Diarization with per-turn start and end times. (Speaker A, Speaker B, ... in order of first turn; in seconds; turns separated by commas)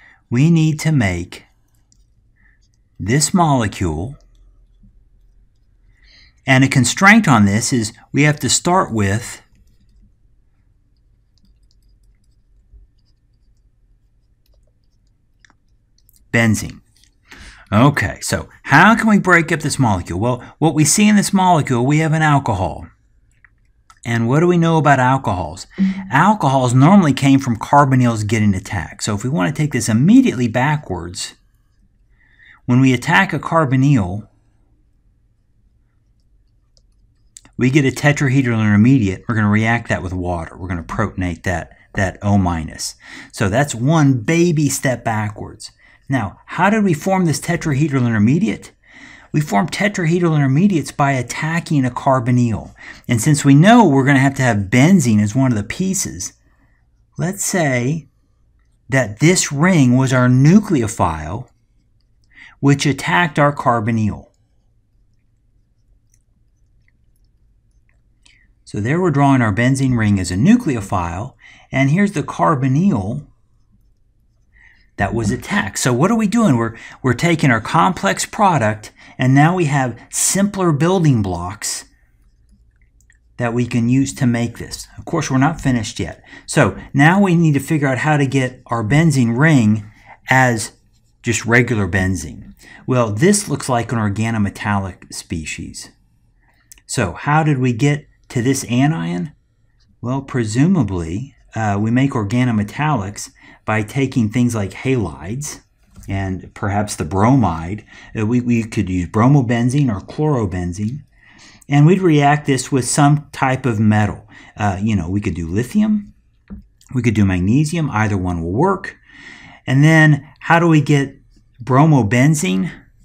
Speaker A: 0.3-1.5, Speaker A: 3.0-4.2, Speaker A: 6.5-9.4, Speaker A: 16.3-16.8, Speaker A: 17.7-22.9, Speaker A: 24.1-31.4, Speaker A: 32.7-34.3, Speaker A: 37.6-48.7, Speaker A: 49.3-56.3, Speaker A: 57.2-58.1, Speaker A: 58.9-61.5, Speaker A: 62.6-64.3, Speaker A: 68.7-73.3, Speaker A: 75.0-81.9, Speaker A: 83.4-95.9, Speaker A: 96.9-99.3, Speaker A: 100.0-111.0, Speaker A: 111.7-116.1, Speaker A: 116.9-119.0, Speaker A: 119.7-122.7